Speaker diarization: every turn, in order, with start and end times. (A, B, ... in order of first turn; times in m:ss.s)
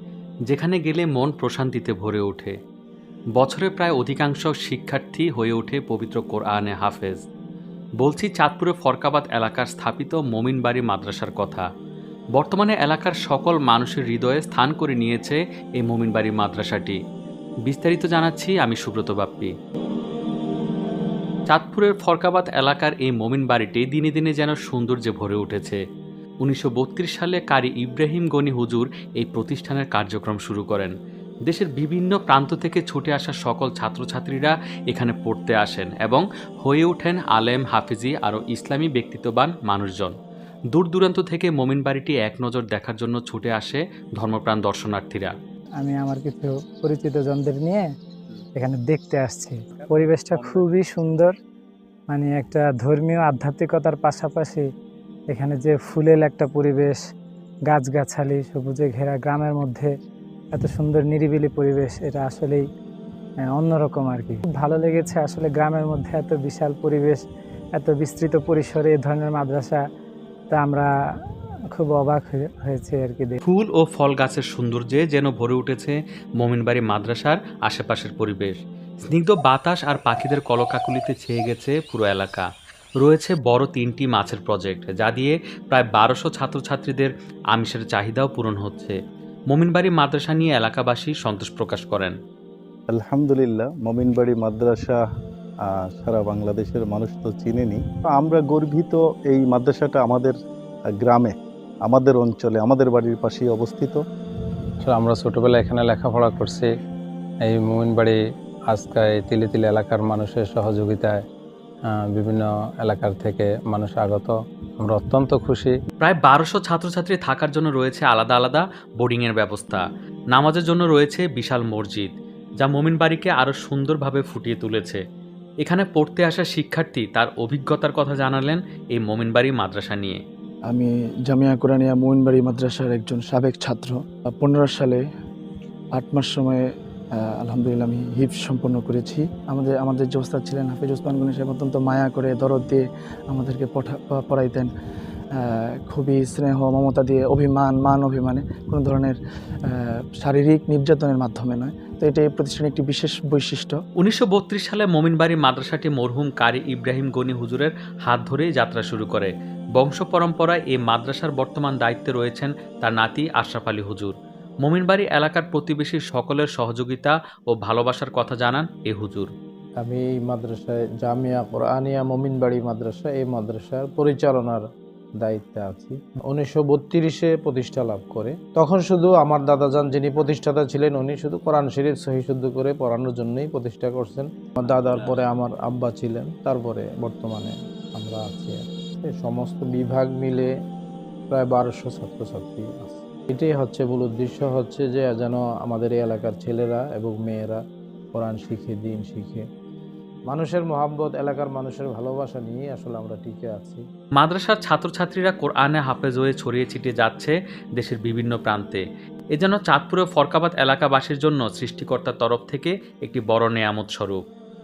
0:00.5-0:02.6 A
0:03.4-0:07.2 A
0:08.0-0:11.7 A
0:12.4-0:17.0 A
0:17.7-0:19.5 A
0:21.5-0:25.8 A
0:26.4-0:30.9 A
0:31.5-0:40.1 A
0:40.7-0:45.3 A
0:45.8-0:47.9 B
0:48.6-0:51.3 B
0:50.3-0:50.6 A
0:52.1-0:54.6 B
0:55.3-0:57.0 B
0:57.7-0:59.9 B
1:00.5-1:02.6 B
1:03.5-1:07.2 B
1:07.8-1:09.8 B
1:10.5-1:10.9 B
1:11.8-1:13.4 B
1:13.4-1:22.5 A
1:23.0-1:29.0 A
1:29.5-1:32.2 A
1:32.9-1:35.0 C
1:36.0-1:40.3 C
1:41.0-1:41.3 C
1:41.9-1:44.0 C
1:44.8-1:46.7 D
1:47.4-1:48.2 D
1:48.7-1:51.2 D
1:51.9-1:55.7 D
1:56.0-2:05.0 A
2:05.6-2:10.2 A
2:10.7-2:15.0 E
2:16.0-2:16.6 E
2:17.2-2:24.7 E
2:25.4-2:33.8 E
2:34.0-2:49.3 A
2:49.8-2:54.6 F
2:55.2-3:10.5 F
3:11.3-3:17.6 F
3:18.1-3:19.4 F
3:20.3-3:23.8 F
3:24.2-3:28.8 A
3:29.4-3:34.2 A